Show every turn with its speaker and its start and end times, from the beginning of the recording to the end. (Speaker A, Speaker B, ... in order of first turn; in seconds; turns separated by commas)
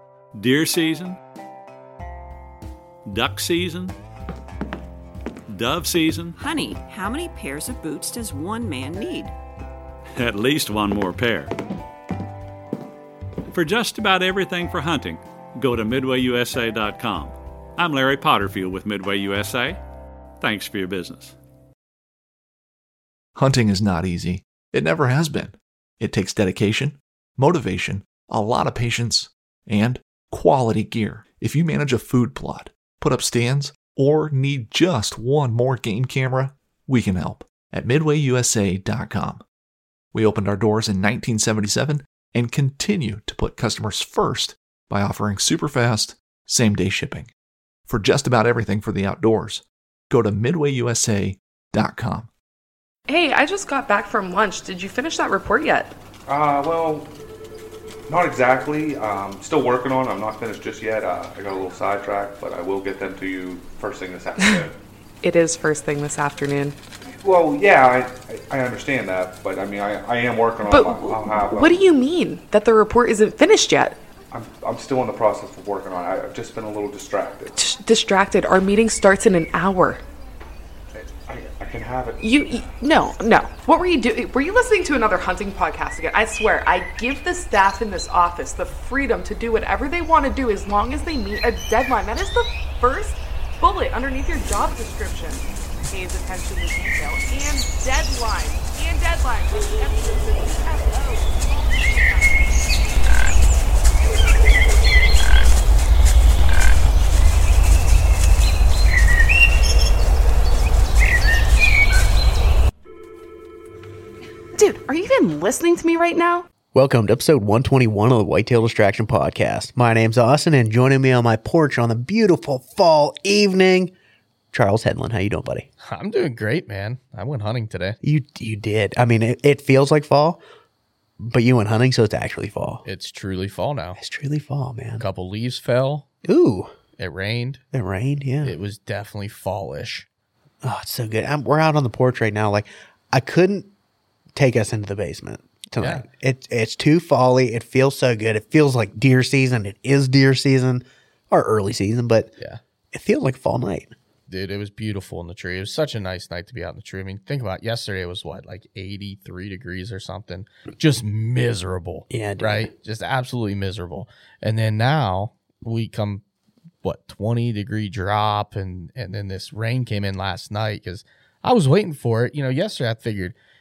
Speaker A: 0.3-1.2, Speaker A: 3.1-3.9, Speaker A: 5.5-6.4, Speaker B: 6.4-9.3, Speaker A: 10.2-11.5, Speaker A: 13.5-19.8, Speaker A: 20.4-21.4, Speaker C: 23.4-39.4, Speaker C: 40.1-47.3, Speaker C: 47.9-52.3, Speaker D: 53.1-55.9, Speaker E: 56.3-57.1, Speaker E: 58.1-64.8, Speaker D: 65.2-66.8, Speaker E: 67.0-71.8, Speaker D: 70.7-74.0, Speaker E: 74.3-77.6, Speaker D: 77.6-80.0, Speaker E: 81.0-82.2, Speaker D: 82.2-103.0, Speaker D: 114.6-116.5, Speaker F: 116.7-123.9, Speaker F: 124.5-125.7, Speaker G: 125.8-128.0, Speaker F: 128.0-130.4, Speaker F: 131.2-132.8, Speaker G: 132.8-134.0, Speaker F: 134.0-135.1, Speaker G: 135.0-136.1, Speaker F: 136.2-136.7, Speaker G: 137.0-137.6, Speaker F: 137.7-138.6, Speaker G: 138.4-140.1, Speaker F: 140.6-143.7, Speaker F: 144.3-152.3, Speaker G: 145.8-146.1, Speaker F: 152.9-153.9, Speaker G: 154.3-166.2, Speaker F: 162.1-162.7, Speaker G: 166.8-173.3